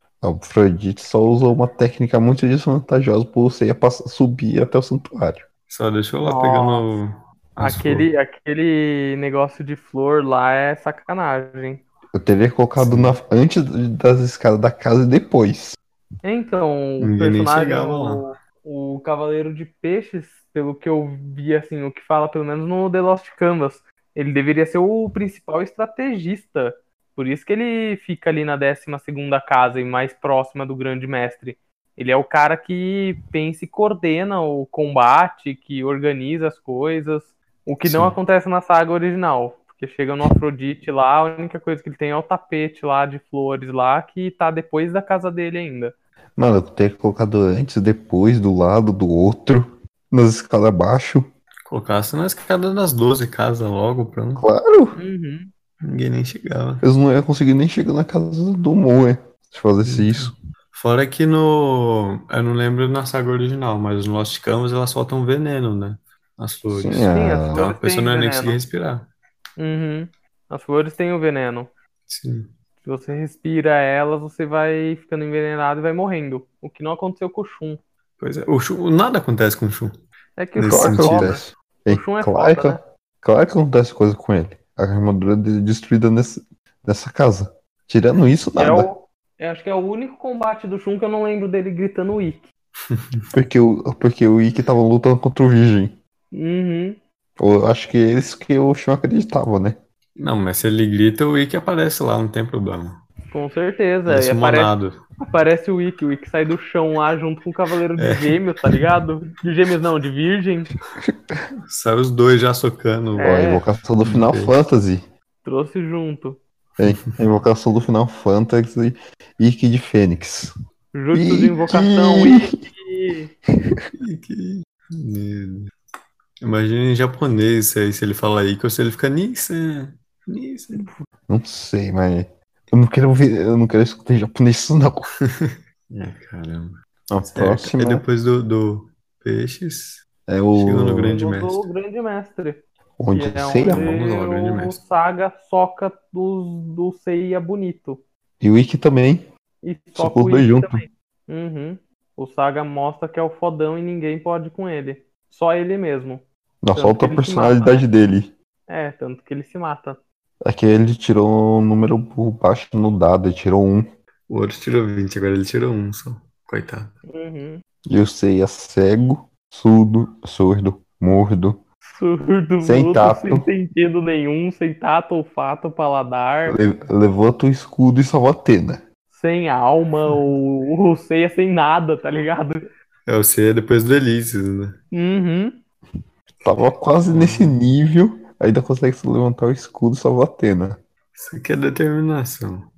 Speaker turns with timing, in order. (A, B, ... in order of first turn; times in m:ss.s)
0:00.2-0:05.4 A
0:05.7-0:08.1 B
0:06.2-0:06.9 C
0:07.6-0:11.8 C
0:12.1-0:15.8 A
0:12.8-0:13.2 B
0:16.2-0:45.9 C
0:17.0-0:18.2 B
0:46.4-0:51.3 A
0:51.7-0:54.4 B
0:54.4-0:55.0 A
0:55.0-0:55.5 C
0:55.8-0:56.8 B
0:56.8-1:00.4 A
0:59.9-1:09.1 B
1:06.7-1:07.7 A
1:07.1-1:08.6 C
1:09.6-1:11.7 C
1:12.1-1:12.5 B
1:12.8-1:17.8 C
1:18.2-1:20.0 B
1:20.4-1:22.8 C
1:20.6-1:21.4 B
1:20.7-1:28.9 A
1:28.6-1:32.5 C
1:32.9-1:33.2 B
1:33.3-1:36.0 A
1:36.3-1:37.0 C
1:37.4-1:39.8 A
1:40.2-1:43.0 B
1:43.3-1:44.7 C
1:44.1-1:45.0 B
1:45.3-1:50.7 C
1:48.0-1:48.4 B
1:51.0-1:51.4 A
1:51.7-1:54.5 B
1:53.2-1:53.7 C
1:53.2-1:55.0 A
1:55.4-1:56.4 C
1:56.8-2:00.5 A
2:00.9-2:03.3 C
2:01.1-2:02.5 A
2:04.0-2:05.7 B
2:06.4-2:10.9 B
2:11.3-2:15.1 A
2:15.3-2:21.6 B
2:17.1-2:18.0 A
2:20.3-2:21.2 A
2:21.1-2:28.0 C
2:23.0-2:23.9 A
2:23.7-2:24.8 B
2:28.4-2:29.2 A
2:29.6-2:36.2 C
2:29.9-2:30.8 A
2:36.6-2:38.3 A
2:36.8-2:37.8 C
2:38.7-2:40.0 C
2:40.4-2:43.9 A
2:44.3-2:47.0 B
2:47.1-2:47.6 C
2:47.9-2:51.6 A
2:51.8-2:56.6 C
2:52.6-2:53.5 A
2:56.5-2:58.8 A
2:59.1-3:02.6 C
3:03.1-3:04.8 B
3:04.9-3:05.6 C
3:06.4-3:10.8 A
3:07.1-3:07.6 B
3:11.2-3:12.7 B